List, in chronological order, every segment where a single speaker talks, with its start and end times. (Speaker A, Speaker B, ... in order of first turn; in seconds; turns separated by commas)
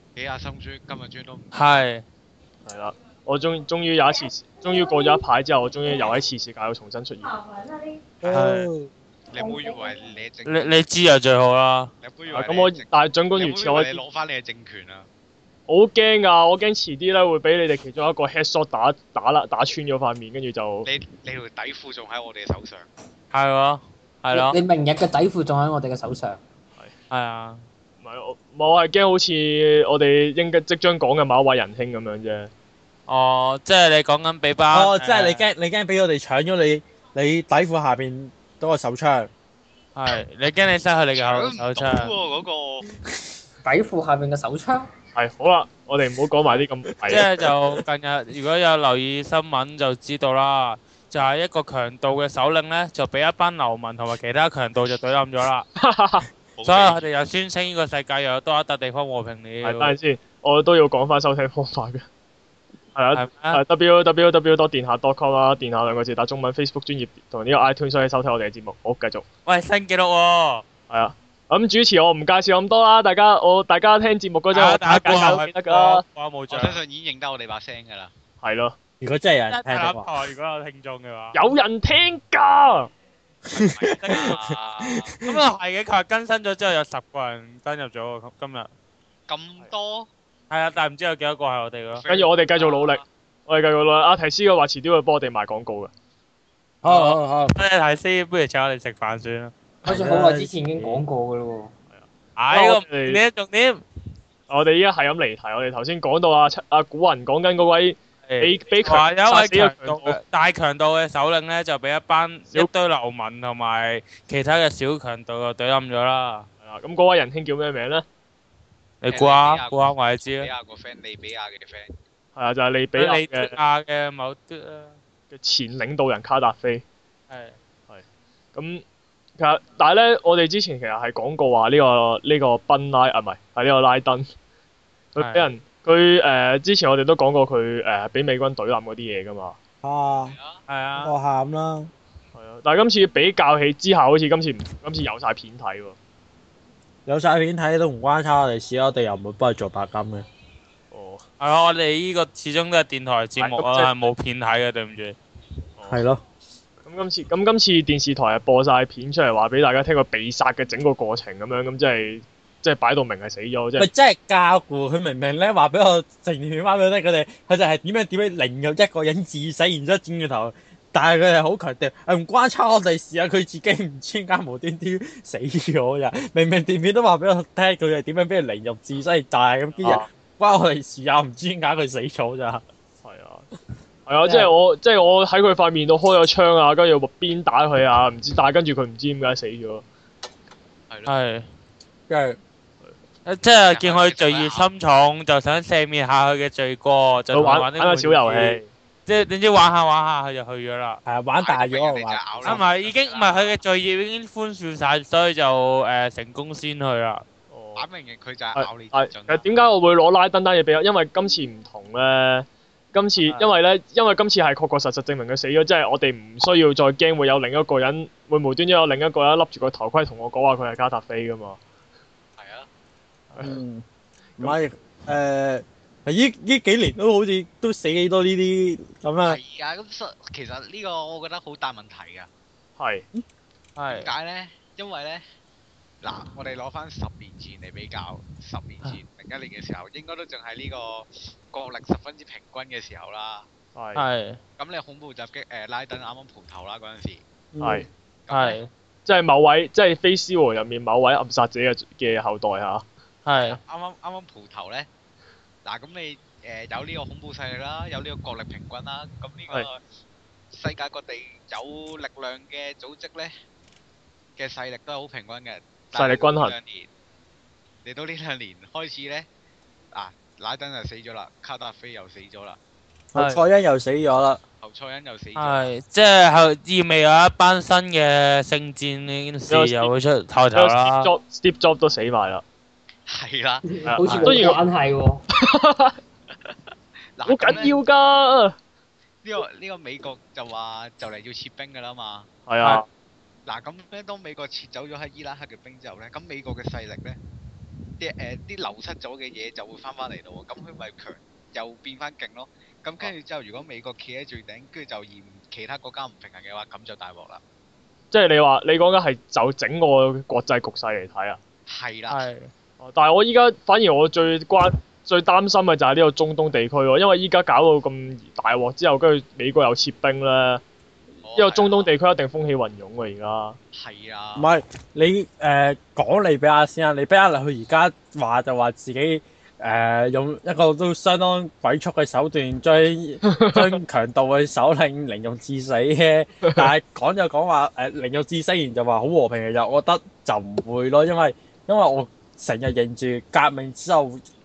Speaker A: 0.2-1.6, Speaker B: 1.5-2.0, Speaker C: 2.6-7.4, Speaker D: 8.2-8.9, Speaker B: 8.2-8.7, Speaker A: 9.3-10.8, Speaker B: 10.4-11.9, Speaker A: 12.0-15.1, Speaker C: 12.3-14.0, Speaker C: 15.7-20.9, Speaker A: 20.9-22.9, Speaker B: 23.3-24.6, Speaker E: 24.3-26.4, Speaker B: 27.1-27.6, Speaker C: 28.0-32.5, Speaker B: 33.1-35.4, Speaker D: 34.7-39.3, Speaker B: 40.0-42.1, Speaker A: 41.1-42.9, Speaker E: 43.6-44.9, Speaker C: 45.1-47.2, Speaker D: 47.0-47.5, Speaker B: 47.1-55.7, Speaker C: 55.8-56.3, Speaker A: 56.6-57.0, Speaker B: 56.6-59.9, Speaker C: 59.6-62.0, Speaker C: 63.0-69.3, Speaker B: 63.1-63.6, Speaker B: 69.5-70.7, Speaker C: 70.9-76.0, Speaker B: 74.5-76.8, Speaker A: 76.5-78.1, Speaker C: 78.4-78.8, Speaker D: 79.0-80.1, Speaker B: 79.5-81.4, Speaker C: 81.3-82.9, Speaker D: 83.5-85.4, Speaker A: 83.6-85.1, Speaker B: 84.0-84.4, Speaker B: 85.2-88.7, Speaker A: 89.3-90.1, Speaker B: 90.5-92.0, Speaker A: 91.9-93.0, Speaker C: 92.1-95.9, Speaker D: 96.8-97.6, Speaker B: 96.8-99.5, Speaker D: 99.9-101.0, Speaker E: 99.9-101.7, Speaker C: 101.9-103.2, Speaker B: 102.4-103.8, Speaker C: 104.5-110.2, Speaker B: 108.3-116.5, Speaker C: 116.6-118.0, Speaker B: 119.0-120.5, Speaker A: 119.1-121.9, Speaker C: 122.4-123.6, Speaker B: 123.0-124.9, Speaker C: 125.3-126.8, Speaker B: 127.3-127.5, Speaker C: 127.9-128.8, Speaker C: 129.4-134.3, Speaker C: 135.1-139.6, Speaker B: 135.2-135.5, Speaker D: 139.8-140.3, Speaker A: 140.2-140.6, Speaker B: 140.7-141.1, Speaker D: 141.0-141.9, Speaker C: 142.3-145.9, Speaker D: 147.1-150.2, Speaker C: 150.9-151.2, Speaker B: 151.4-155.2, Speaker C: 153.4-153.9, Speaker C: 155.8-156.0, Speaker D: 155.9-156.2, Speaker C: 156.8-163.9, Speaker D: 163.8-182.6, Speaker C: 183.0-183.5, Speaker C: 184.1-189.8, Speaker A: 190.9-191.1, Speaker B: 191.1-191.4, Speaker D: 192.1-192.4, Speaker B: 193.2-201.0, Speaker A: 193.7-194.7, Speaker C: 197.3-198.7, Speaker D: 201.0-202.6, Speaker A: 201.4-203.6, Speaker B: 202.4-207.2, Speaker C: 207.5-207.9, Speaker A: 207.8-209.7, Speaker C: 208.5-221.6, Speaker A: 222.4-222.7, Speaker C: 223.3-223.6, Speaker D: 223.4-223.8, Speaker D: 224.4-229.4, Speaker A: 229.2-232.3, Speaker C: 232.8-233.1, Speaker B: 233.8-234.1, Speaker A: 233.9-235.2, Speaker A: 236.0-243.5, Speaker C: 243.8-244.0, Speaker B: 243.9-244.4, Speaker A: 244.6-247.2, Speaker D: 247.5-247.8, Speaker C: 247.6-247.9, Speaker A: 248.3-248.6, Speaker B: 248.3-248.7, Speaker C: 249.1-252.8, Speaker B: 253.2-253.6, Speaker A: 253.3-254.9, Speaker A: 255.7-259.8, Speaker A: 260.5-263.3, Speaker A: 264.4-266.9, Speaker C: 265.9-266.6, Speaker A: 267.8-269.3, Speaker A: 269.9-272.6, Speaker D: 273.1-274.4, Speaker B: 273.1-273.4, Speaker A: 274.6-275.7, Speaker B: 275.4-281.1, Speaker C: 279.5-279.9, Speaker C: 280.6-282.4, Speaker A: 283.1-283.8, Speaker E: 283.7-285.2, Speaker C: 283.9-284.6, Speaker B: 284.1-284.4, Speaker C: 285.4-286.0, Speaker A: 287.2-287.8, Speaker C: 287.2-288.6, Speaker A: 289.2-292.3, Speaker C: 292.5-292.9, Speaker A: 293.5-297.2, Speaker A: 298.0-307.4, Speaker C: 308.1-311.4, Speaker A: 311.7-312.2, Speaker B: 312.1-312.5, Speaker C: 312.8-320.6, Speaker A: 321.2-321.9, Speaker C: 321.4-323.6, Speaker A: 323.7-324.5, Speaker D: 324.4-344.2, Speaker C: 333.2-333.8